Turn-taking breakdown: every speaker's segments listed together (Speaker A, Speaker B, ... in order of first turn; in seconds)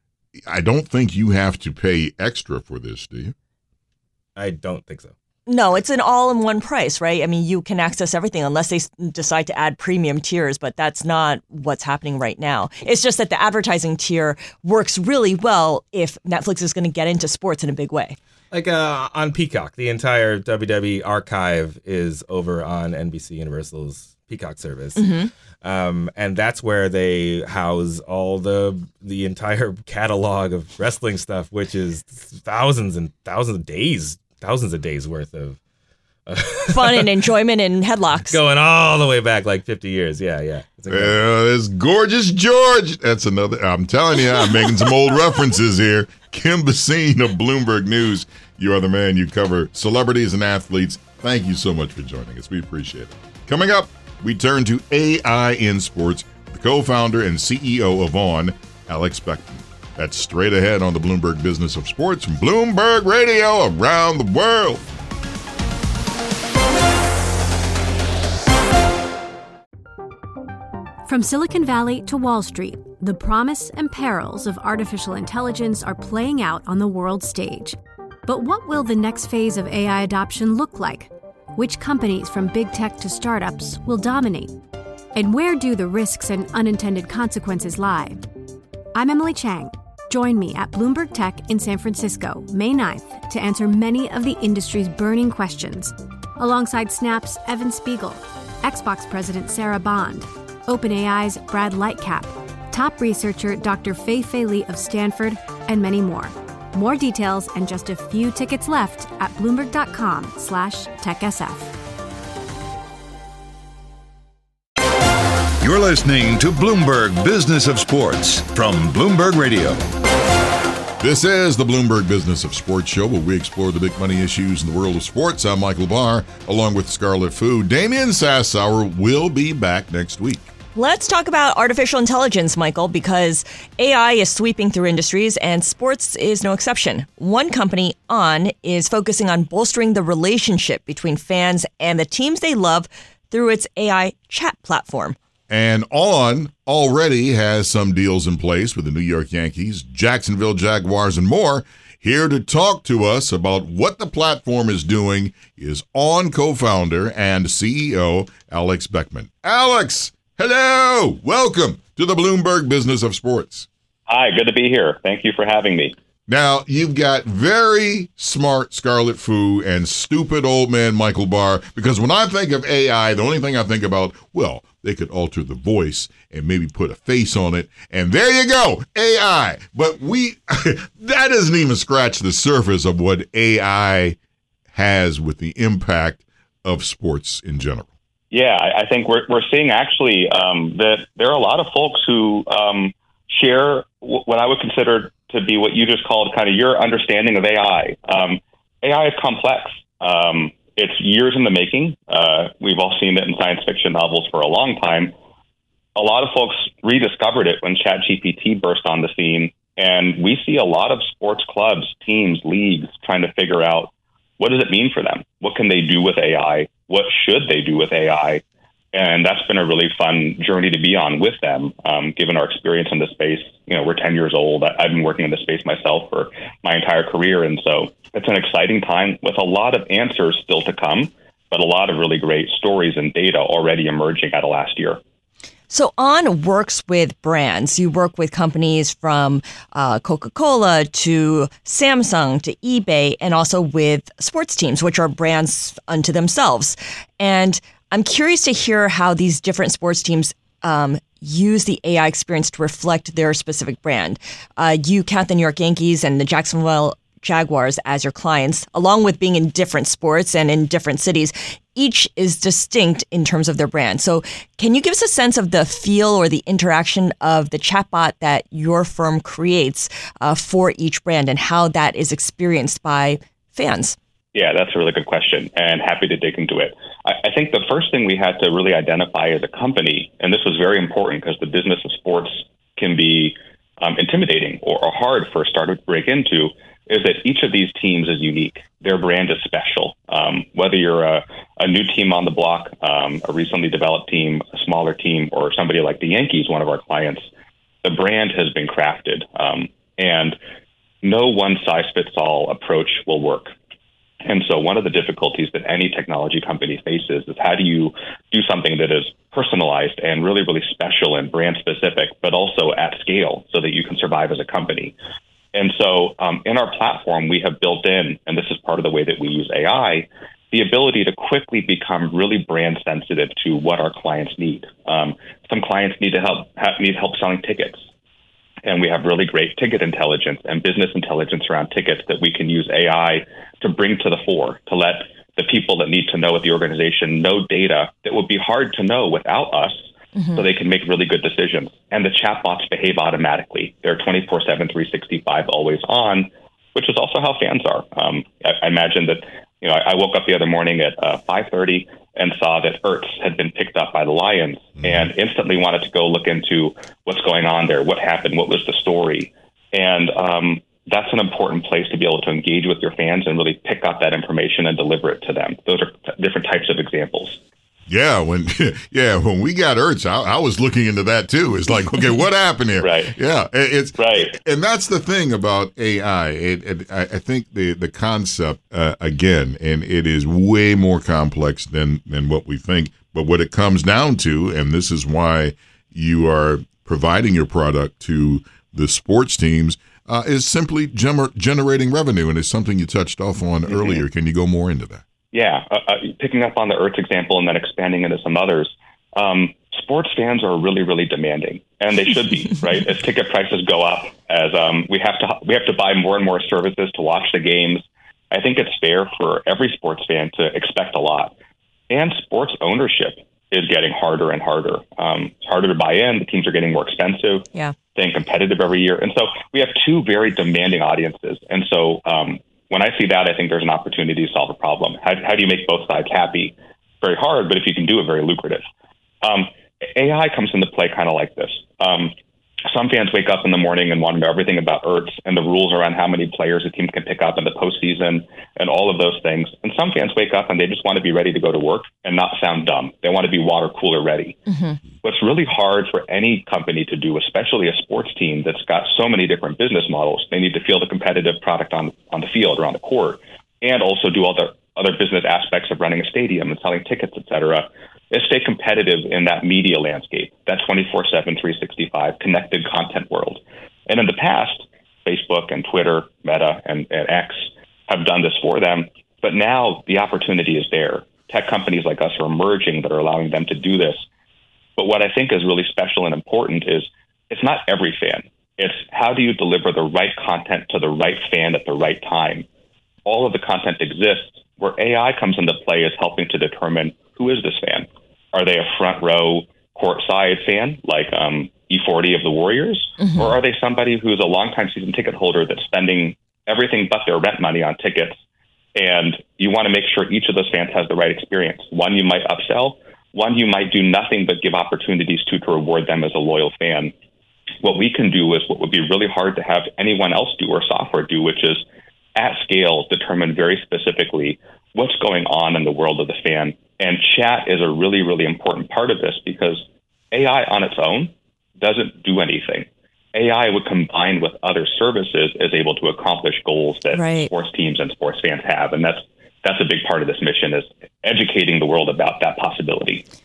Speaker A: 0.5-3.3, 40.9-64.9, 121.0-130.5, 145.5-163.7, 166.3-184.2, 184.7-187.9, 354.8-355.1, 367.9-395.0
Speaker B: 4.3-5.1, 18.5-25.1, 25.6-35.6, 36.3-37.1, 38.3-41.2
Speaker C: 5.5-18.1, 24.9-25.3, 36.7-38.4, 130.7-145.2, 235.7-273.9, 340.2-340.4, 444.5-444.8, 493.0-493.3, 526.9-527.3
Speaker D: 71.0-84.6, 85.1-88.2, 88.9-111.8
Speaker E: 115.6-119.8
Speaker F: 164.1-165.9, 188.3-205.1, 205.9-218.4, 218.9-235.0, 274.3-297.2, 297.8-300.4, 301.0-303.5, 304.2-314.9, 315.5-327.8, 328.6-339.8, 340.3-367.4, 372.8-373.1, 374.0-374.4, 393.7-394.0, 395.3-411.3, 411.9-428.6, 429.2-432.1, 432.7-444.4, 445.0-474.0, 474.8-482.4, 483.0-498.2, 498.7-506.9, 507.6-511.6, 512.1-533.0